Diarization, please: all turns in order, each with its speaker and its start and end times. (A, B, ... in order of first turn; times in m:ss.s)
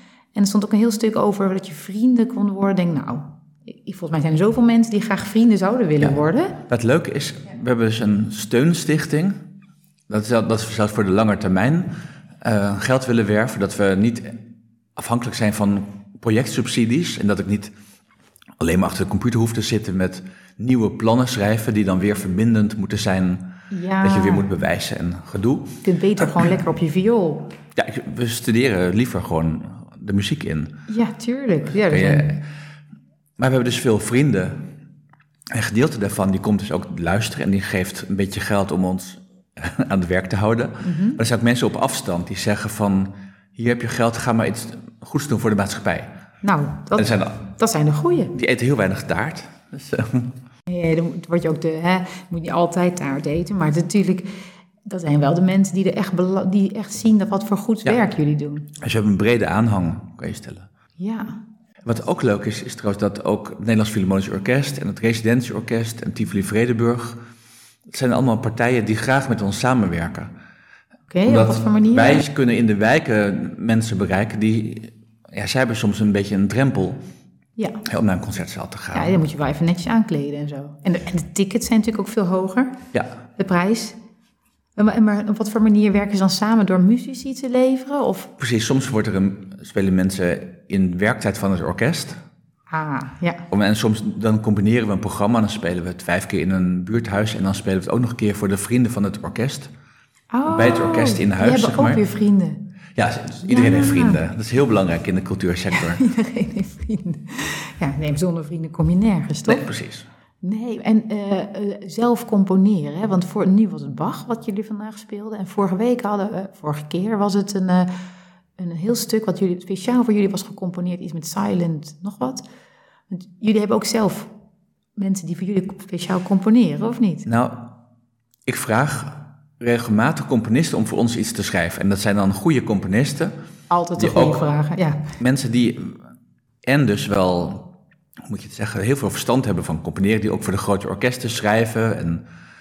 0:00.3-0:06.6 A
0:06.0-0:09.4 B
0:10.1-0:14.4 B
0:15.0-0:17.7 B
0:18.6-0:26.5 B
0:23.7-0:24.5 A
0:25.8-0:27.5 A
0:27.7-0:30.7 B
0:30.9-0:32.3 A
0:31.9-0:32.4 B
0:33.4-0:34.6 B
0:35.5-0:46.1 B
0:40.8-0:41.2 A
0:46.4-0:48.3 A
0:47.0-0:47.4 B
0:48.3-0:50.3 B
0:50.7-0:54.3 A
0:54.8-0:58.7 A
0:58.8-1:00.7 B
1:01.0-1:01.4 A
1:01.8-1:07.2 B
1:07.9-1:10.3 B
1:11.1-1:12.2 A
1:11.2-1:17.0 B
1:17.6-1:17.8 A
1:17.8-1:19.2 B
1:18.9-1:22.8 A
1:23.4-1:24.0 A
1:24.8-1:28.3 A
1:28.4-1:32.2 B
1:32.7-1:33.4 A
1:33.5-1:39.7 B
1:40.3-1:42.6 A
1:40.4-1:42.0 B
1:43.0-1:46.0 B
1:43.4-1:44.2 A
1:45.7-1:49.6 A
1:49.5-1:50.1 B
1:50.4-1:57.9 A
1:58.6-2:02.4 A
2:03.1-2:04.3 A
2:05.0-2:07.3 A
2:07.2-2:07.7 B
2:08.4-2:13.3 B
2:13.7-2:15.1 A
2:14.0-2:14.4 B
2:15.2-2:16.0 B
2:16.6-2:17.7 B
2:18.2-2:22.2 B